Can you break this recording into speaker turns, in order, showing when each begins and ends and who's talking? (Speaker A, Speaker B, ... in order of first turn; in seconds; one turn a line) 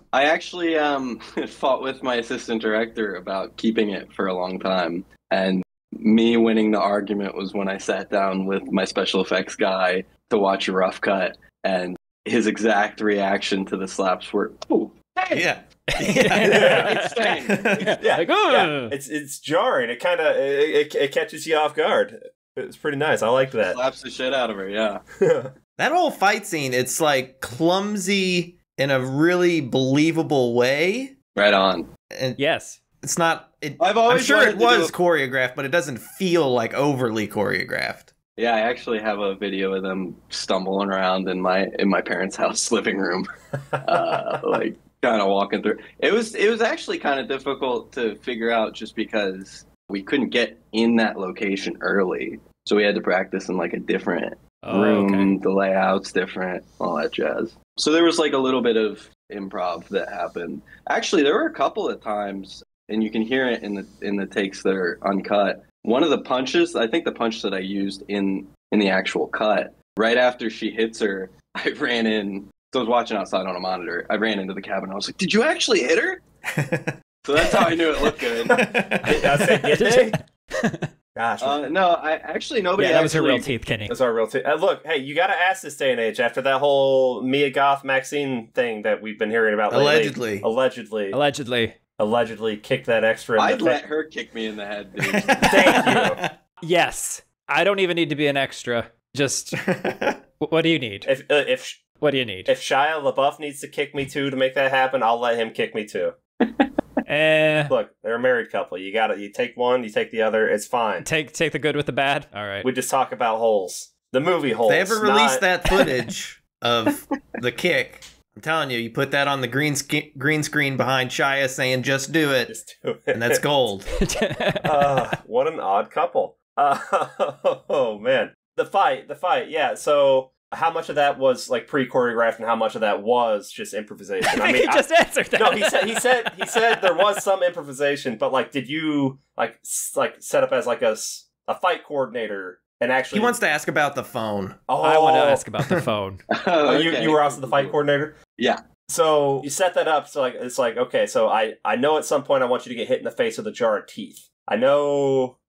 Speaker A: 0.1-15.5
Speaker B: 15.3-17.9
Speaker C: 15.9-18.9
Speaker D: 16.4-17.0
Speaker A: 16.6-17.7
Speaker D: 18.0-23.8
Speaker A: 23.6-25.0
Speaker D: 25.2-25.5
Speaker B: 25.8-31.1
Speaker A: 31.3-31.9
Speaker B: 32.1-32.4
Speaker C: 32.4-32.8
Speaker B: 33.0-38.1
Speaker A: 33.8-34.9
Speaker A: 38.4-76.2
Speaker C: 54.6-55.3
Speaker B: 76.5-77.9
Speaker A: 77.2-78.6
Speaker B: 78.5-79.2
Speaker D: 78.5-80.2
Speaker C: 79.2-80.9
Speaker D: 81.1-81.6
Speaker A: 81.4-83.5
Speaker C: 82.8-83.9
Speaker D: 83.9-91.2
Speaker B: 89.7-90.5
Speaker C: 91.1-91.8
Speaker D: 92.0-93.8
Speaker A: 93.4-95.5
Speaker B: 95.1-96.3
Speaker D: 95.5-96.2
Speaker C: 95.7-96.0
Speaker C: 96.6-99.5
Speaker B: 99.5-100.2
Speaker C: 100.4-101.1
Speaker D: 101.0-101.8
Speaker C: 102.0-102.5
Speaker D: 102.5-106.2
Speaker A: 106.4-106.7
Speaker C: 107.0-107.7
Speaker D: 107.7-111.1
Speaker C: 111.0-112.7
Speaker D: 112.6-115.5
Speaker B: 114.7-122.5
Speaker D: 122.5-123.5
Speaker B: 123.1-123.9
Speaker C: 124.0-124.7
Speaker D: 124.6-143.4
Speaker C: 134.3-137.2
Speaker B: 143.1-144.6
Speaker D: 144.7-145.4
Speaker C: 144.8-146.2
Speaker A: 146.3-147.8
Speaker D: 146.6-148.2
Speaker D: 148.9-155.4